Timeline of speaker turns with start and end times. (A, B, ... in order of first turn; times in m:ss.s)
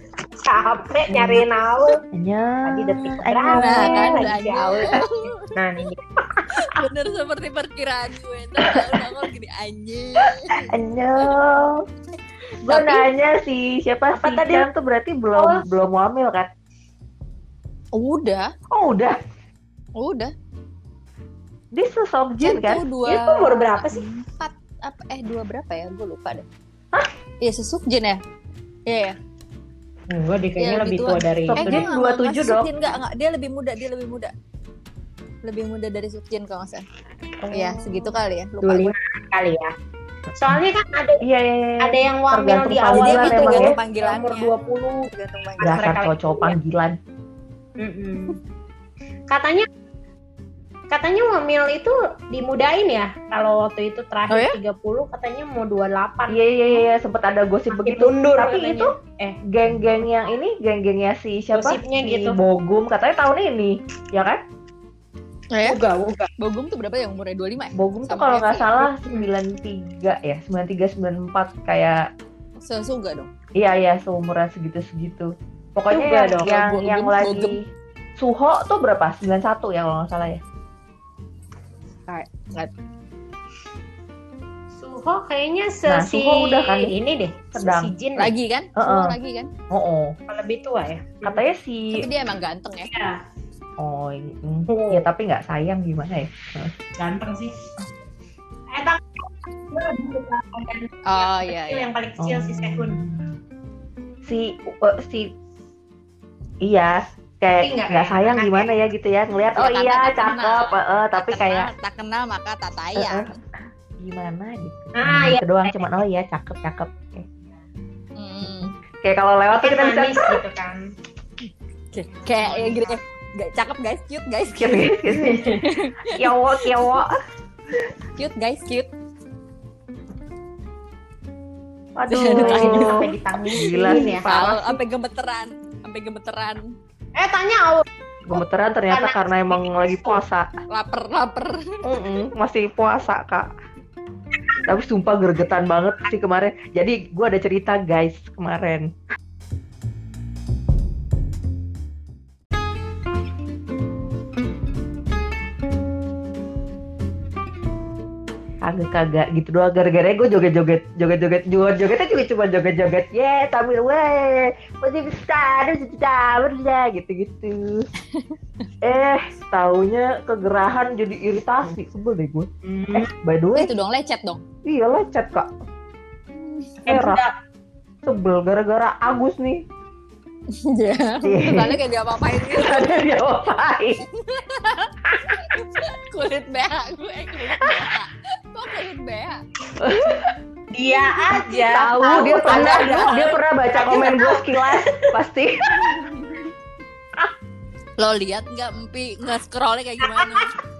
0:00.4-0:02.0 A
0:01.1-0:01.4 B
0:02.1-0:04.2 B
0:02.6-0:06.5 A
0:03.5-0:05.6 C
0:06.5-0:10.7 C
0:08.6-0:09.0 B
0:10.2-0:11.8 B
0:12.6-0:16.5 B
0:12.6-0:13.0 C
0:14.1-0:14.7 A
0:15.4-0:15.6 A
0:17.9-0:18.5 C
0:18.7-0:19.2 B
0:20.0-0:20.3 C
0:21.7-0:22.8 B
0:22.4-0:26.5 C
0:23.0-0:24.0 A
0:27.4-0:28.2 C
0:28.9-0:29.2 C
0:30.1-0:31.8 A
0:30.6-0:34.3 C
0:31.5-0:32.7 B
0:35.4-0:36.8 C
0:37.4-0:38.1 B
0:37.5-0:38.9 C
0:38.6-0:39.7 A
0:40.4-0:41.2 A
0:41.2-0:43.7 B
0:41.8-0:45.1 A
0:42.9-0:45.8 C
0:45.6-0:46.6 A
0:45.6-0:47.0 B
0:47.8-0:48.4 A
0:49.3-0:49.7 A
0:50.9-0:56.4 A
0:54.3-0:54.6 C
0:56.3-0:58.9 B
0:57.7-0:59.4 A
0:59.4-1:04.4 B
1:01.5-1:02.4 A
1:05.5-1:05.8 C
1:05.6-1:06.3 A
1:06.4-1:08.9 C
1:07.8-1:12.0 B
1:09.0-1:09.3 A
1:12.6-1:13.3 C
1:13.5-1:17.7 B
1:15.9-1:16.6 A
1:16.4-1:17.6 C
1:18.2-1:20.4 B
1:22.1-1:22.7 C
1:24.8-1:28.3 A
1:25.9-1:26.9 B
1:27.5-1:27.9 B
1:28.2-1:29.5 C
1:28.8-1:29.2 B
1:29.7-1:30.1 B
1:30.3-1:31.4 A
1:31.2-1:32.1 B
1:31.9-1:32.9 C
1:32.9-1:33.2 A
1:33.8-1:36.7 B
1:34.7-1:35.0 A
1:37.0-1:37.6 A
1:38.7-1:43.0 A
1:41.0-1:41.9 C
1:42.2-1:43.4 B
1:44.2-1:45.3 B
1:46.6-1:51.7 B
1:47.6-1:48.8 A
1:49.5-1:53.4 C
1:53.0-1:53.3 B
1:54.0-1:57.2 B
1:54.9-1:55.9 A
1:58.2-1:58.7 C
1:58.4-2:00.4 B
1:59.5-2:00.8 A
2:01.9-2:06.2 C
2:02.3-2:03.0 A
2:04.5-2:07.2 B
2:05.1-2:05.6 A
2:08.2-2:08.9 C
2:12.0-2:14.8 B
2:12.1-2:16.7 C
2:12.1-2:14.3 A
2:17.1-2:20.2 A
2:18.3-2:20.5 B
2:20.7-2:21.8 C
2:21.8-2:23.5 B
2:24.6-2:28.9 B
2:38.6-2:47.9 B
2:48.8-2:53.7 B
2:52.6-2:53.1 A
2:53.5-2:54.4 C
2:54.6-2:55.5 B
2:56.3-2:56.7 C
2:56.8-2:57.3 A
2:56.8-2:57.2 B
2:58.0-2:59.6 B
3:00.5-3:03.1 C
3:01.2-3:01.8 B
3:02.5-3:04.0 B
3:04.1-3:09.4 C
3:05.1-3:05.4 B
3:07.6-3:07.9 B
3:09.8-3:10.3 B
3:10.7-3:15.1 A
3:11.1-3:11.7 C
3:11.6-3:16.1 B
3:12.3-3:12.9 C
3:15.9-3:16.5 C
3:18.0-3:20.5 C
3:20.0-3:20.5 A